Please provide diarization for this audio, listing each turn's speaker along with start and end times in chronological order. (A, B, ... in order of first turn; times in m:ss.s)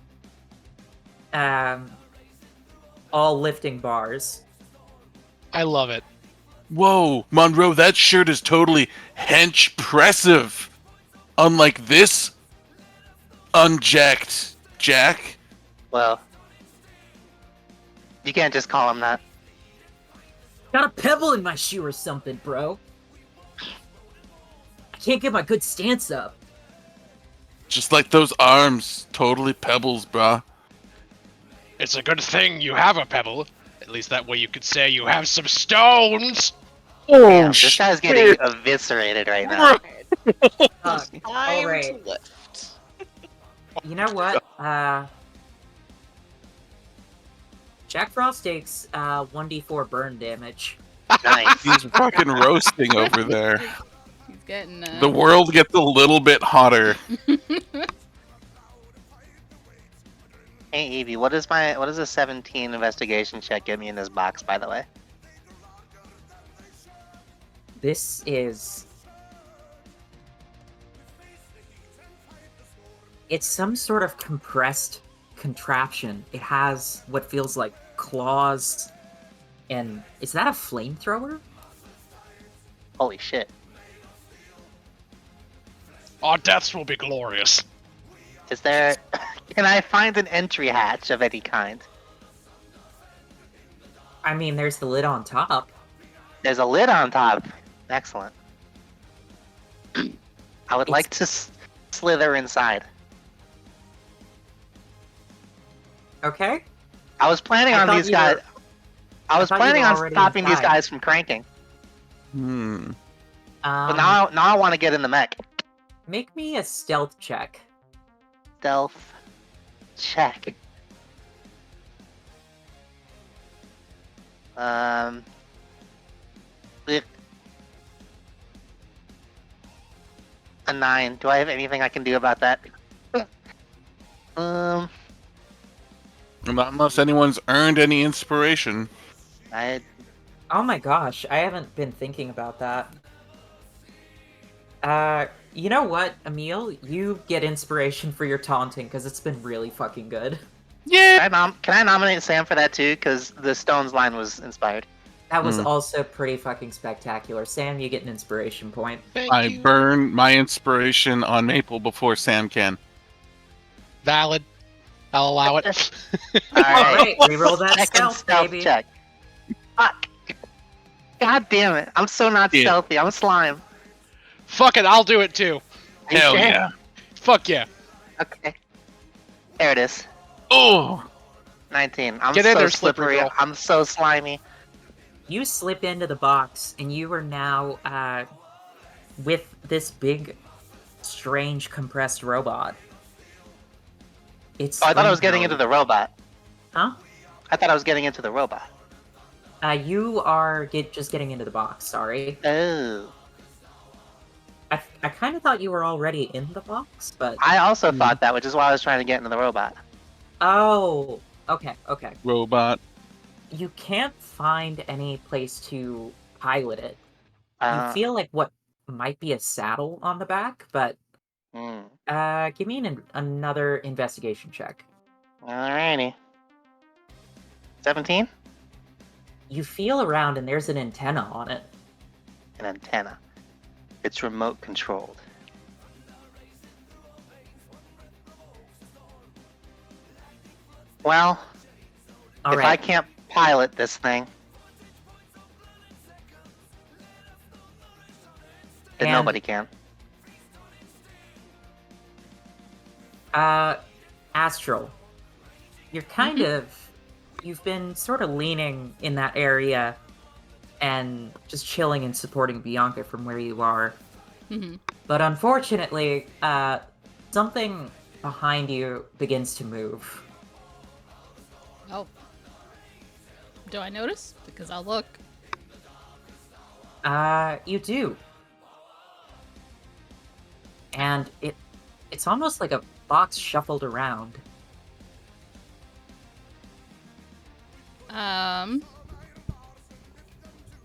0:01.3-0:02.0 A
0:03.1-0:04.4 A
0:05.5-0:06.0 B
0:06.7-0:10.7 C
0:11.4-0:12.3 C
0:13.5-0:15.4 C
0:15.9-0:16.2 D
0:18.2-0:19.2 D
0:20.7-0:22.8 A
0:25.0-0:26.4 A
0:27.7-0:30.4 C
0:31.8-0:36.6 B
0:37.1-0:38.4 C
0:37.3-0:39.7 D
0:39.4-0:40.1 E
0:40.8-0:42.0 A
0:40.8-0:42.7 E
0:43.8-0:45.1 A
0:47.9-0:50.8 A
0:51.1-0:51.7 B
0:51.2-0:51.6 D
0:51.6-0:53.7 C
0:53.0-0:53.7 F
0:54.3-0:55.2 F
0:54.9-0:57.0 C
0:57.2-0:57.9 F
1:00.7-1:04.9 D
1:07.8-1:08.9 A
1:13.3-1:18.9 A
1:19.7-1:21.4 A
1:23.0-1:23.5 D
1:26.2-1:27.6 B
1:28.5-1:29.0 D
1:29.5-1:31.9 D
1:34.2-1:35.7 A
1:36.4-1:38.3 D
1:40.7-1:42.9 D
1:46.2-1:46.6 A
1:47.2-1:48.4 D
1:47.7-1:48.4 A
1:49.3-1:51.4 D
1:49.4-1:50.8 A
1:52.3-1:53.0 C
1:53.6-1:54.2 A
1:53.9-1:55.4 D
1:56.1-1:57.7 A
1:58.6-1:59.2 D
2:00.0-2:00.5 D
2:04.6-2:05.2 D
2:10.7-2:12.6 D
2:14.4-2:14.9 D
2:16.5-2:18.9 C
2:19.5-2:19.8 D
2:20.5-2:22.9 A
2:24.8-2:30.4 A
2:30.9-2:31.2 C
2:31.2-2:34.9 D
2:35.3-2:39.1 A
2:35.4-2:35.7 C
2:39.1-2:39.7 B
2:39.3-2:42.8 C
2:44.0-2:44.5 B
2:45.1-2:47.2 B
2:45.4-2:45.8 D
2:46.5-2:47.1 D
2:46.7-2:48.7 A
2:47.8-2:48.8 D
2:49.8-2:50.1 D
2:51.2-2:53.6 D
2:54.4-2:55.6 B
2:56.1-2:56.6 D
2:56.1-2:56.7 C
2:57.1-2:57.7 B
2:58.2-2:58.5 D
2:59.6-3:00.1 D
3:00.5-3:01.1 C
3:01.7-3:04.4 D
3:02.3-3:03.3 B
3:05.3-3:08.2 A
3:09.2-3:10.4 A
3:11.0-3:12.8 A
3:14.6-3:15.6 A
3:14.8-3:16.1 D
3:16.7-3:17.0 A
3:17.5-3:18.7 D
3:19.6-3:22.4 A
3:22.4-3:23.1 D
3:24.7-3:27.4 A
3:27.4-3:29.8 D
3:30.4-3:32.2 A
3:32.2-3:32.8 C
3:33.5-3:37.0 A
3:37.6-3:38.0 D
3:37.7-3:41.0 A
3:41.5-3:41.9 D
3:42.1-3:44.8 A
3:45.4-3:46.2 D
3:47.8-3:48.3 D
3:49.5-3:51.7 A
3:52.6-3:53.2 D
3:54.0-3:55.2 D
4:01.0-4:01.4 D
4:02.4-4:02.8 A
4:02.5-4:04.3 D
4:09.0-4:09.4 A
4:09.0-4:09.7 D
4:13.3-4:13.8 A
4:14.3-4:15.0 A
4:15.9-4:16.9 A
4:16.2-4:16.5 F
4:17.4-4:20.0 A
4:20.8-4:24.0 A
4:24.5-4:24.8 F
4:25.1-4:30.2 A
4:33.7-4:35.2 F
4:37.0-4:38.2 A
4:40.9-4:41.6 A
4:42.1-4:44.4 A
4:48.1-4:48.9 F